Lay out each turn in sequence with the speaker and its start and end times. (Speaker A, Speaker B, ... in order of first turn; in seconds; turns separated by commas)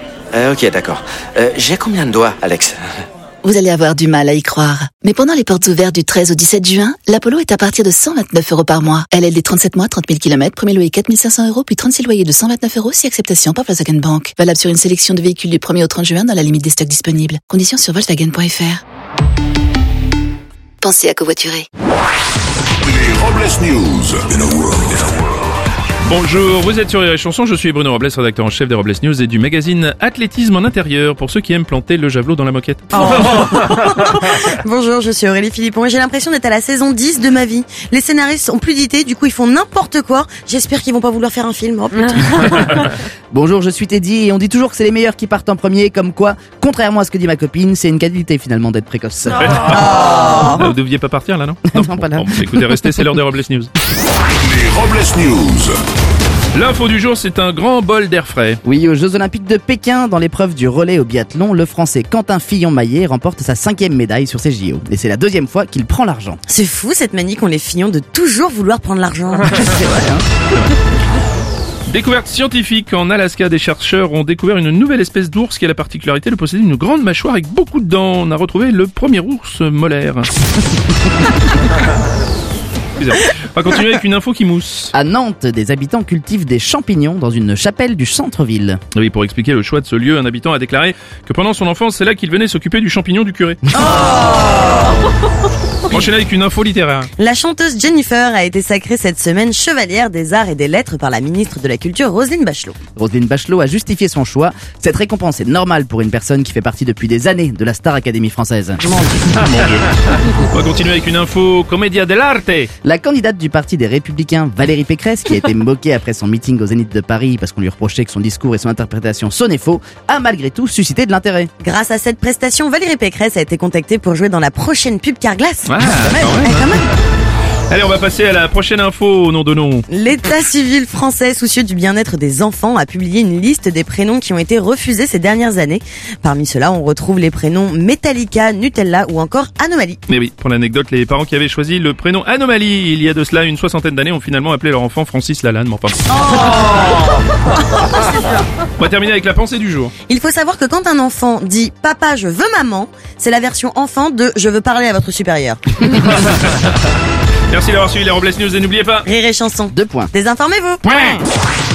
Speaker A: 0.3-2.8, Speaker B: 3.4-18.8, Speaker B: 20.8-21.7, Speaker C: 22.8-25.2, Speaker D: 26.1-32.9, Speaker E: 33.0-42.9, Speaker F: 43.3-49.7, Speaker D: 49.4-53.7, Speaker E: 50.0-50.3, Speaker F: 51.7-52.4, Speaker C: 54.4-55.8, Speaker D: 56.5-58.6, Speaker F: 58.6-66.4, Speaker E: 66.5-70.0, Speaker F: 69.6-70.2, Speaker D: 71.9-80.3, Speaker D: 83.0-84.9, Speaker F: 84.9-88.8, Speaker D: 88.9-93.6, Speaker E: 93.7-94.9, Speaker D: 95.9-97.1, Speaker E: 97.2-102.8, Speaker F: 103.0-108.8, Speaker E: 108.8-109.3, Speaker D: 109.3-112.7, Speaker F: 112.8-121.5, Speaker E: 121.6-125.7, Speaker D: 125.7-126.7, Speaker F: 126.0-126.4, Speaker E: 126.4-126.9, Speaker D: 127.7-129.9, Speaker E: 129.9-140.0, Speaker D: 140.1-146.0, Speaker E: 146.1-148.4, Speaker D: 148.8-149.9, Speaker E: 150.1-155.8, Speaker D: 155.9-156.6, Speaker D: 157.5-159.1, Speaker E: 159.1-161.1, Speaker F: 159.7-160.1